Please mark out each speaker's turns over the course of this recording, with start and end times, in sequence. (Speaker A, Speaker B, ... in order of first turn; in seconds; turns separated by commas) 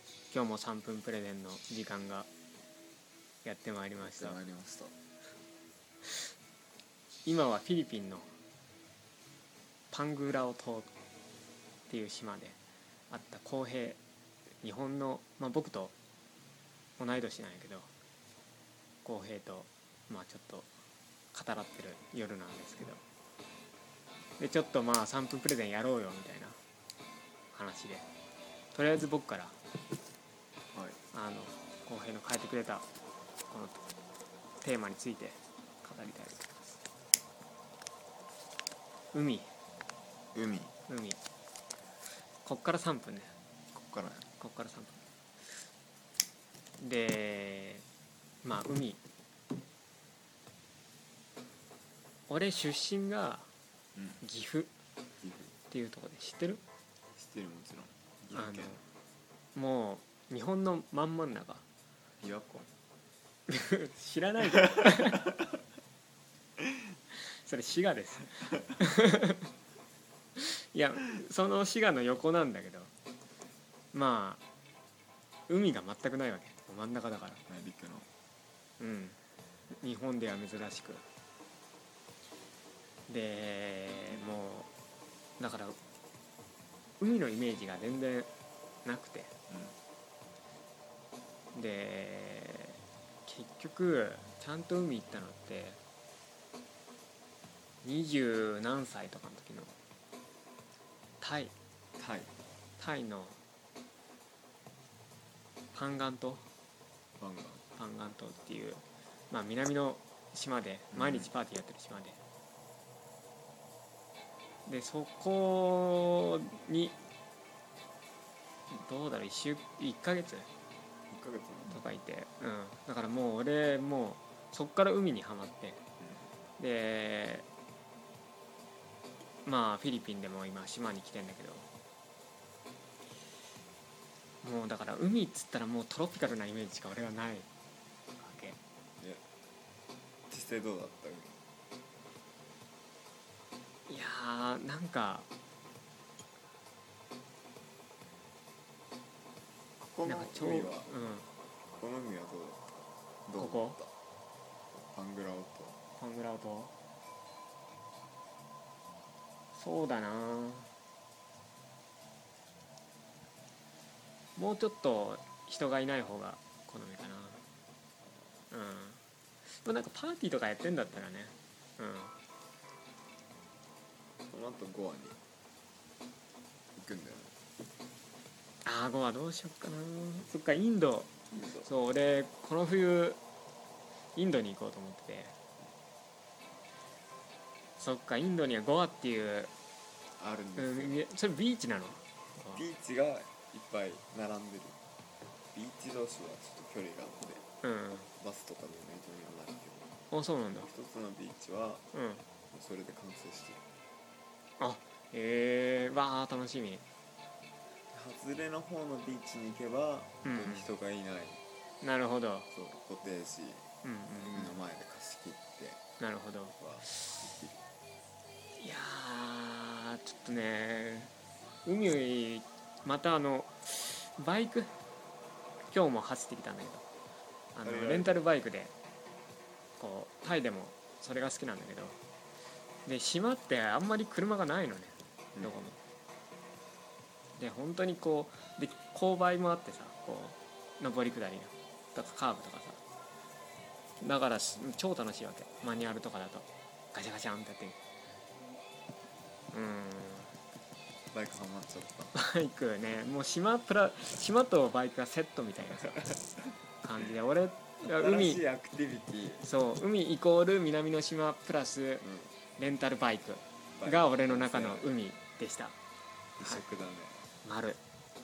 Speaker A: 0.3-2.3, Speaker A: 3.4-4.4, Speaker B: 4.0-5.0, Speaker A: 7.2-8.3, Speaker A: 9.9-10.9, Speaker A: 11.9-12.6, Speaker A: 13.1-14.0, Speaker A: 14.6-15.9, Speaker A: 17.0-17.9, Speaker A: 19.0-20.7, Speaker A: 21.3-23.0, Speaker A: 24.4-26.6, Speaker A: 27.5-28.1, Speaker A: 28.7-29.6, Speaker B: 30.7-31.0, Speaker A: 31.1-32.9, Speaker A: 33.5-33.8, Speaker A: 34.6-36.7, Speaker A: 39.1-39.5, Speaker B: 40.3-40.8, Speaker A: 40.9-41.2, Speaker A: 42.4-43.3, Speaker B: 43.7-44.3, Speaker A: 44.4-45.0, Speaker A: 46.8-47.9, Speaker A: 48.4-49.0, Speaker A: 52.3-53.5, Speaker A: 54.2-54.7, Speaker B: 55.2-55.6, Speaker A: 55.7-56.6, Speaker B: 57.1-58.8, Speaker A: 58.3-58.8, Speaker A: 59.5-61.6, Speaker B: 62.2-62.7, Speaker A: 63.5-65.3, Speaker A: 67.1-69.5, Speaker A: 70.4-72.9, Speaker A: 73.9-74.4, Speaker A: 75.5-77.4, Speaker B: 77.5-78.1, Speaker A: 78.8-79.2, Speaker A: 79.7-81.0, Speaker A: 83.1-84.7, Speaker A: 85.4-85.8, Speaker A: 87.0-88.3, Speaker A: 88.8-89.3, Speaker B: 89.5-89.8, Speaker A: 91.5-95.8, Speaker A: 97.8-99.8, Speaker A: 101.2-101.5, Speaker B: 102.0-102.3, Speaker A: 102.8-103.4, Speaker A: 105.7-106.5, Speaker B: 107.2-107.7, Speaker A: 107.8-112.2, Speaker B: 110.9-111.3, Speaker A: 114.7-117.0, Speaker A: 118.7-120.5, Speaker B: 121.1-121.9, Speaker A: 121.7-125.8, Speaker A: 126.6-127.5, Speaker A: 129.5-131.7, Speaker A: 134.4-137.5, Speaker A: 138.2-138.6, Speaker B: 139.0-139.2, Speaker B: 140.3-141.4, Speaker A: 143.9-145.3, Speaker B: 149.8-150.9, Speaker A: 150.0-151.3, Speaker B: 151.7-152.7, Speaker B: 153.3-153.9, Speaker A: 153.4-153.8, Speaker B: 154.7-155.8, Speaker A: 156.0-156.7, Speaker A: 159.5-160.7, Speaker A: 164.4-167.4, Speaker A: 168.5-172.2, Speaker B: 174.3-175.2, Speaker B: 176.7-177.4, Speaker A: 178.6-183.2, Speaker B: 181.3-181.7, Speaker A: 184.2-185.3, Speaker A: 187.8-189.5, Speaker B: 190.2-191.1, Speaker A: 190.6-192.6, Speaker B: 192.5-194.8, Speaker B: 195.5-197.4, Speaker A: 197.6-198.1, Speaker B: 198.2-199.9, Speaker A: 200.1-200.7, Speaker B: 200.6-201.8, Speaker A: 201.9-202.2, Speaker B: 202.5-203.7, Speaker A: 204.6-206.8, Speaker B: 207.9-211.4, Speaker A: 210.2-210.7, Speaker A: 211.8-212.5, Speaker B: 212.5-215.8, Speaker A: 213.8-214.6, Speaker A: 216.0-217.0, Speaker B: 216.6-217.6, Speaker A: 218.6-221.1, Speaker A: 221.7-224.8, Speaker A: 225.7-226.8, Speaker A: 227.5-228.7, Speaker B: 227.6-228.3, Speaker A: 229.8-232.0, Speaker A: 232.8-235.8, Speaker B: 235.3-235.6, Speaker A: 237.4-242.8, Speaker A: 244.0-247.8, Speaker A: 249.5-250.3, Speaker B: 251.1-252.1, Speaker A: 252.1-256.2, Speaker A: 256.8-258.4, Speaker B: 257.8-259.5, Speaker A: 259.4-262.1, Speaker B: 262.0-262.4, Speaker A: 262.6-265.8, Speaker B: 263.8-264.9, Speaker B: 266.4-267.3, Speaker A: 267.4-267.8